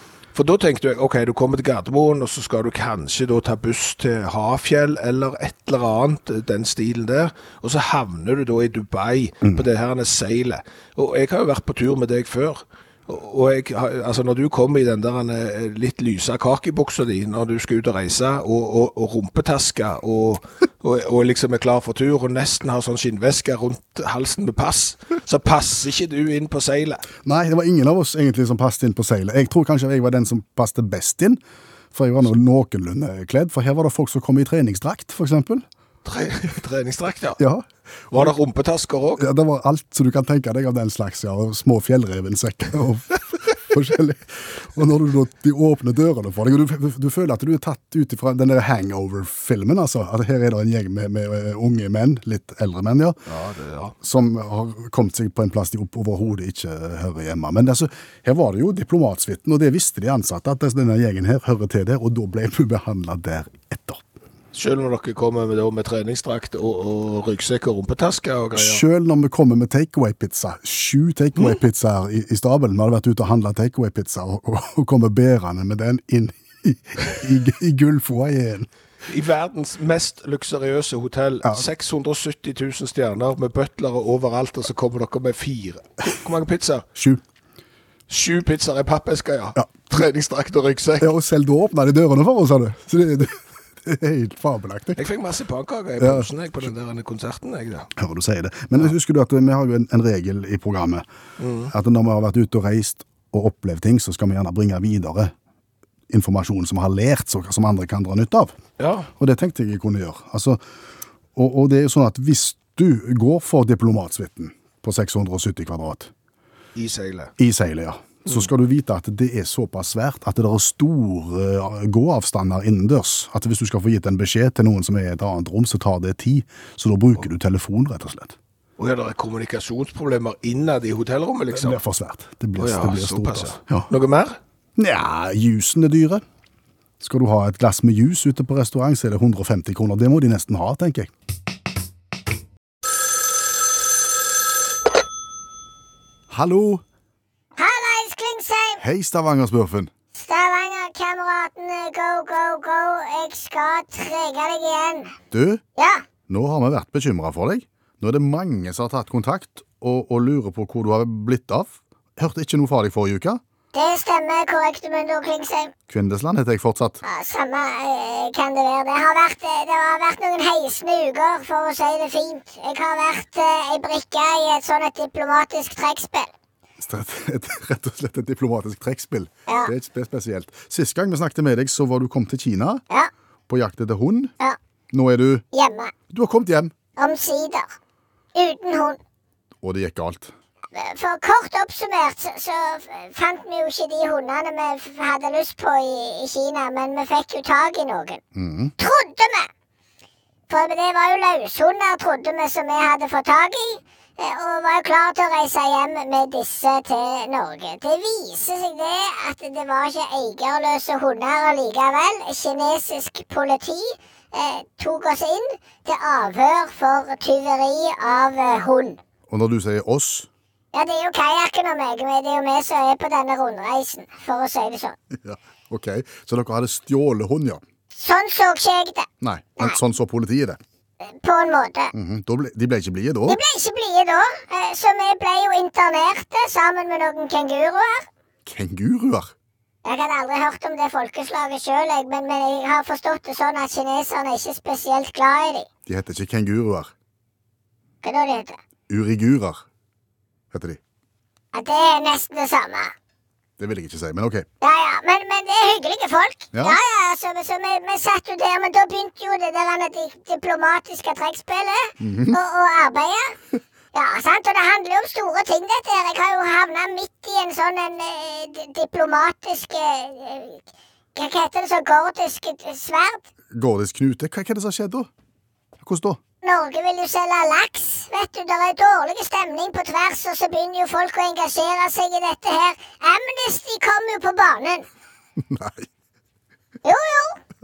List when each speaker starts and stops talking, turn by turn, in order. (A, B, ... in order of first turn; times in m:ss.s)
0:00.3-0:27.1 A
0:27.2-0:31.4 B
0:31.9-0:35.6 B
0:36.0-0:37.4 A
0:37.4-0:38.3 B
0:38.1-0:39.2 A
0:39.2-0:53.2 B
0:53.3-0:53.9 A
0:54.0-1:04.0 B
1:04.5-1:08.8 A
1:08.5-1:18.7 B
1:19.1-1:26.9 A
1:26.9-1:27.2 B
1:28.1-1:31.1 A
1:31.0-1:35.0 B
1:35.0-1:37.9 A
1:36.0-1:36.3 B
1:38.0-1:41.0 B
1:41.4-1:41.7 A
1:41.7-1:45.3 B
1:46.1-1:48.5 B
1:48.8-1:49.1 A
1:49.2-1:50.6 B
1:51.3-1:56.1 B
1:56.8-1:57.3 A
1:57.4-2:08.4 B
2:08.8-2:11.8 A
2:11.5-2:13.9 B
2:12.6-2:14.4 A
2:14.8-2:16.2 B
2:17.0-2:21.1 B
2:26.3-2:26.8 B
2:27.6-2:28.8 C
2:28.8-2:29.9 B
2:30.1-2:35.2 C
2:35.3-2:35.6 B
2:35.8-2:36.0 C
2:36.3-2:43.4 B
2:43.7-2:45.7 C
2:45.9-2:47.0 B
2:47.0-2:56.3 C
2:56.8-3:02.8 B
3:03.5-3:04.3 B
3:04.9-3:05.4 B
3:05.5-3:05.9 C
3:06.1-3:06.7 B
3:07.0-3:07.7 C
3:08.3-3:09.0 C
3:09.6-3:10.3 B
3:10.7-3:18.2 C
3:18.3-3:18.7 B
3:18.8-3:19.5 C
3:20.5-3:39.0 C
3:39.3-3:40.3 B
3:40.7-3:45.0 C
3:45.1-3:47.6 B
3:47.9-3:49.1 C
3:49.2-3:50.6 B
3:51.0-3:51.9 C
3:51.9-3:53.4 B
3:53.3-3:58.1 C
3:58.4-3:59.3 B
3:59.8-4:05.7 C
4:05.8-4:06.9 B
4:08.0-4:08.6 C
4:08.9-4:09.6 B
4:10.5-4:10.8 B
4:11.5-4:12.9 C
4:13.6-4:14.4 B
4:14.6-4:23.4 C
4:16.5-4:16.8 B
4:22.0-4:22.4 B
4:23.9-4:33.2 C
4:33.5-4:35.1 B
4:35.8-4:36.2 B
4:36.4-4:44.8 C
4:45.4-4:45.9 B
4:46.8-4:47.4 C